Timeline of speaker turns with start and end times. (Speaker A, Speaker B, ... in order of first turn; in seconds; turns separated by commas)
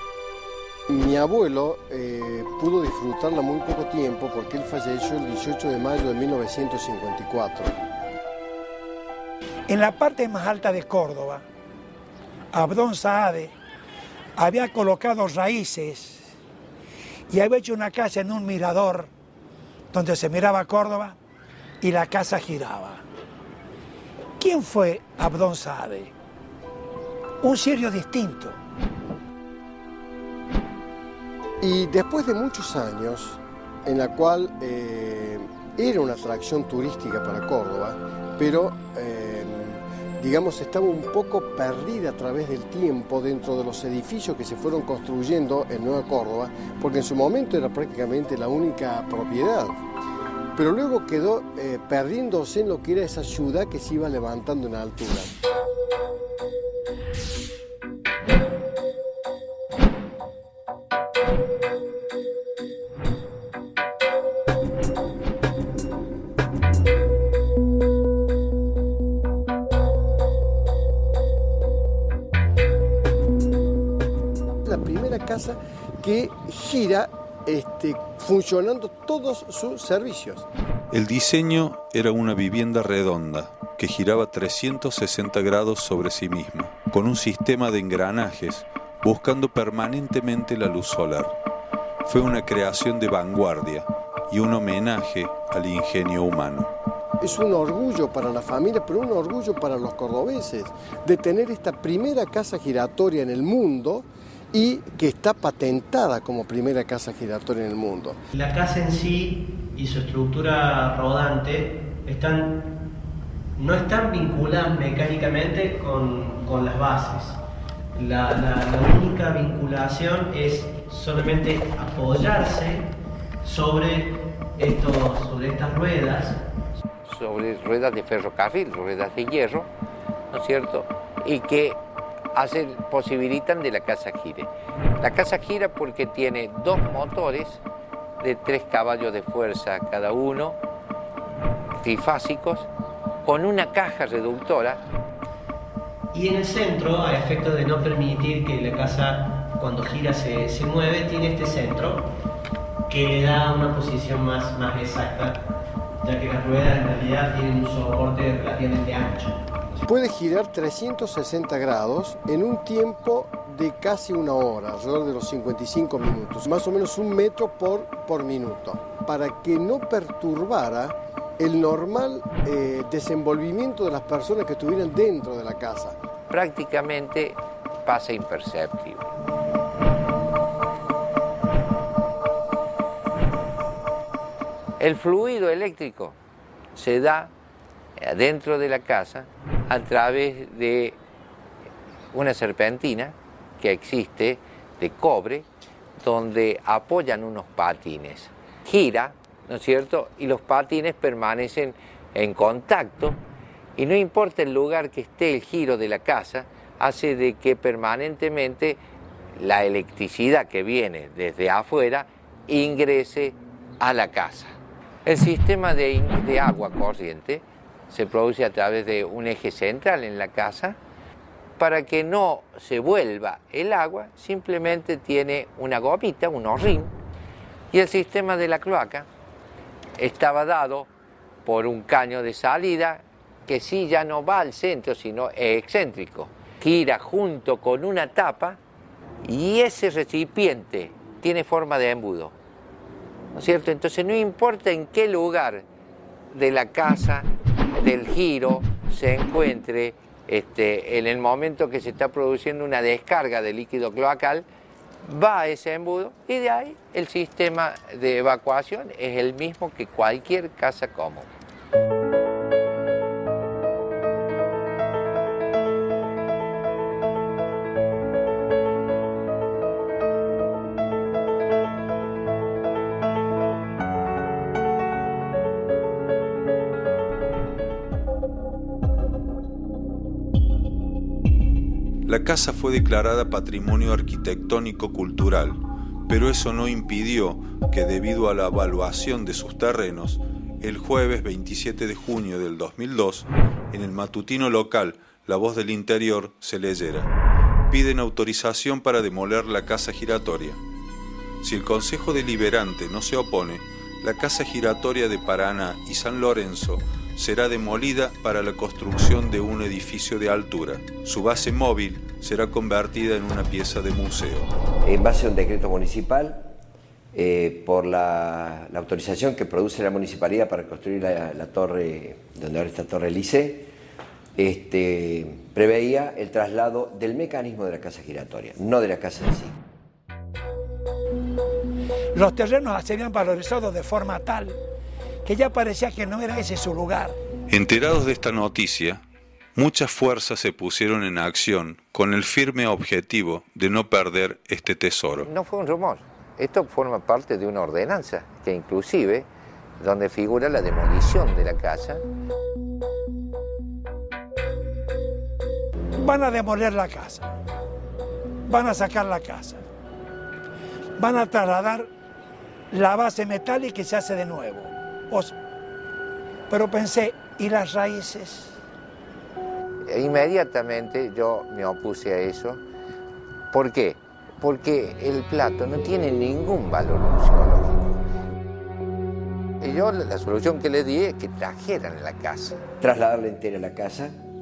Speaker A: 0.9-7.8, Speaker B: 9.7-11.4, Speaker B: 12.5-13.5, Speaker B: 14.4-16.3, Speaker B: 17.3-19.1, Speaker B: 19.9-21.2, Speaker B: 21.8-23.0, Speaker B: 24.4-26.1, Speaker B: 27.4-28.6, Speaker A: 31.6-49.8, Speaker A: 50.5-55.3, Speaker A: 74.7-80.5, Speaker C: 80.9-91.3, Speaker C: 92.0-96.7, Speaker A: 97.2-108.2, Speaker D: 108.3-112.6, Speaker D: 113.6-117.4, Speaker D: 118.0-122.9, Speaker D: 123.4-126.4, Speaker E: 127.1-129.7, Speaker E: 130.3-131.8, Speaker E: 132.3-137.6, Speaker E: 138.2-140.6, Speaker E: 141.8-142.7, Speaker E: 143.2-144.8, Speaker D: 146.1-152.1, Speaker D: 152.9-155.4, Speaker D: 156.0-159.6, Speaker A: 159.9-176.0, Speaker E: 176.3-179.1, Speaker E: 184.8-186.2, Speaker E: 186.8-187.3, Speaker E: 188.0-191.0, Speaker E: 192.1-195.5, Speaker E: 196.0-203.2, Speaker E: 203.8-208.8, Speaker E: 209.4-220.8, Speaker E: 221.6-226.9, Speaker E: 227.7-229.1, Speaker E: 230.0-230.9, Speaker E: 231.5-238.6, Speaker E: 239.2-242.3, Speaker E: 243.3-245.7, Speaker E: 246.3-254.5, Speaker E: 255.1-261.3, Speaker C: 282.1-297.1, Speaker C: 297.7-300.6, Speaker C: 301.4-314.5, Speaker F: 314.8-316.5, Speaker F: 317.1-323.7, Speaker F: 324.4-329.6, Speaker B: 332.1-334.6, Speaker B: 335.2-337.1, Speaker C: 337.5-339.0, Speaker C: 339.6-345.3, Speaker E: 345.2-349.3, Speaker E: 349.8-352.0, Speaker B: 356.0-357.3, Speaker B: 358.5-359.6, Speaker B: 361.0-361.9, Speaker B: 362.7-365.4, Speaker B: 366.5-368.6, Speaker E: 369.9-372.6, Speaker E: 373.5-377.9, Speaker E: 379.6-382.6, Speaker F: 382.8-384.2